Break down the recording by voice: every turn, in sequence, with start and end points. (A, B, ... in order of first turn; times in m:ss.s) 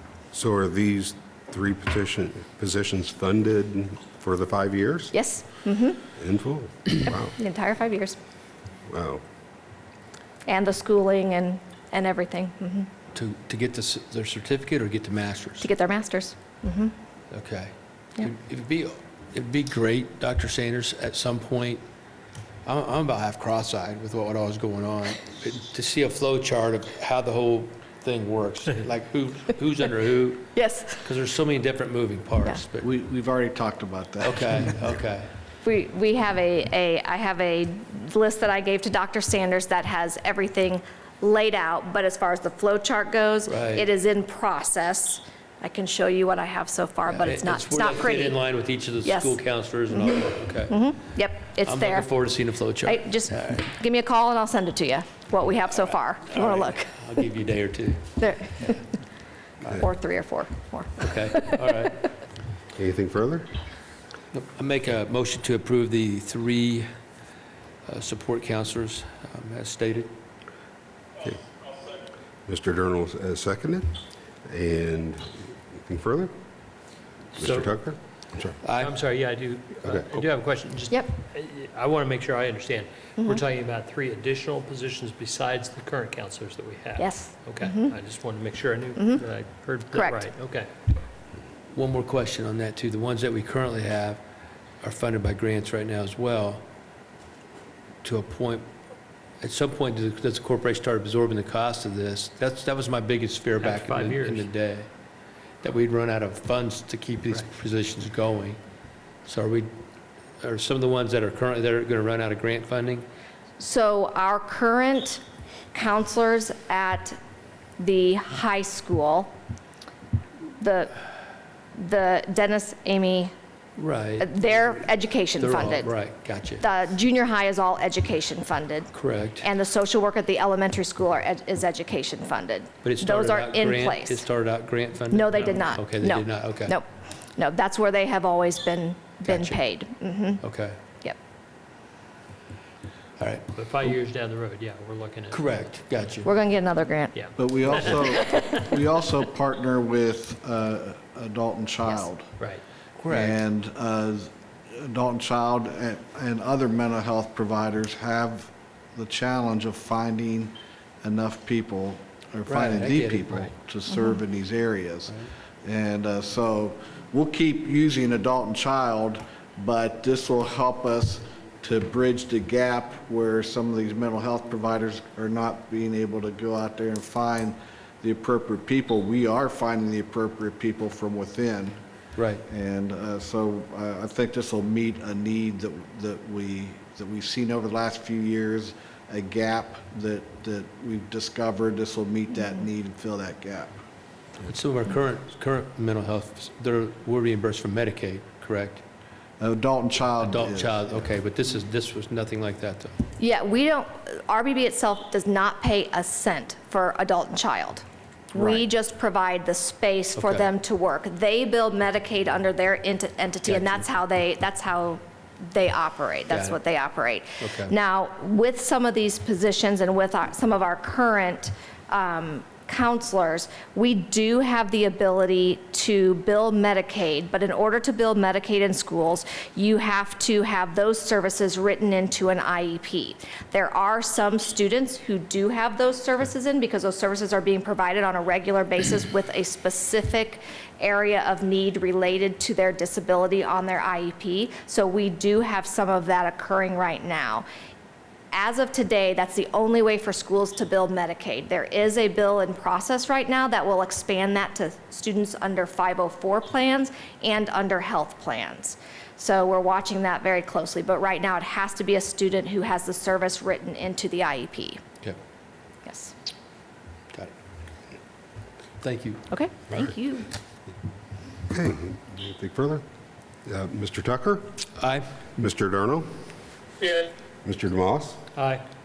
0:00.3-0:05.1 A
0:05.1-0:06.0 B
0:06.2-0:07.4 A
0:07.1-0:08.2 B
0:08.9-0:09.2 A
0:10.5-0:12.9 B
0:13.1-0:15.7 C
0:15.6-0:16.9 B
0:17.3-0:21.8 C
0:22.6-0:32.9 C
0:30.5-0:31.1 B
0:32.8-0:34.8 D
0:34.2-0:35.3 C
0:35.6-0:48.4 B
0:43.5-0:43.9 C
0:47.1-0:51.0 C
0:49.0-0:52.2 B
0:51.6-0:53.6 C
0:52.8-0:57.0 B
0:56.3-0:58.7 C
0:58.2-0:58.9 B
0:59.7-1:01.7 B
1:01.0-1:02.1 C
1:02.8-1:03.5 A
1:04.3-1:06.9 C
1:07.9-1:10.1 C
1:12.5-1:16.3 A
1:17.4-1:17.7 E
1:17.4-1:18.6 A
1:18.6-1:19.0 C
1:18.7-1:30.7 E
1:27.0-1:28.0 B
1:29.0-1:29.2 B
1:29.9-1:30.3 B
1:31.7-1:34.2 C
1:34.8-1:36.6 C
1:38.0-1:38.7 C
1:39.4-1:44.9 C
1:43.6-1:44.5 E
1:45.6-1:48.6 C
1:49.2-1:49.7 C
1:50.4-1:53.1 C
1:53.6-1:55.2 B
1:55.7-1:57.2 B
1:57.8-1:59.3 B
2:00.6-2:00.9 B
2:01.8-2:03.3 B
2:03.8-2:04.8 C
2:04.2-2:06.0 B
2:05.4-2:06.6 C
2:06.6-2:14.3 B
2:08.9-2:09.4 C
2:12.8-2:16.8 C
2:15.1-2:20.4 B
2:19.3-2:19.6 C
2:20.4-2:20.8 C
2:23.2-2:23.9 C
2:23.5-2:25.6 E
2:25.3-2:26.3 C
2:26.2-2:27.2 B
2:27.1-2:28.8 E
2:27.4-2:32.4 D
2:33.0-2:33.4 C
2:33.1-3:01.8 D
2:42.5-2:43.5 C
2:43.9-2:44.2 B
2:45.1-2:45.3 C
3:02.2-3:02.4 C
3:02.5-3:13.8 D
3:14.4-3:18.8 C
3:19.4-3:21.1 D
3:20.2-3:23.0 C
3:23.2-4:07.4 B
3:28.4-3:28.6 D
3:30.2-3:30.5 C
3:33.5-3:33.8 C
3:36.3-3:36.6 C
3:37.4-3:37.7 C
4:08.3-4:24.8 B
4:25.8-4:26.1 B
4:28.8-4:29.9 C
4:29.3-4:30.3 B
4:31.5-4:32.8 A
4:33.5-4:34.6 A
4:34.8-4:35.2 C
4:35.4-4:36.1 A
4:37.4-4:38.3 A
4:38.3-4:38.6 E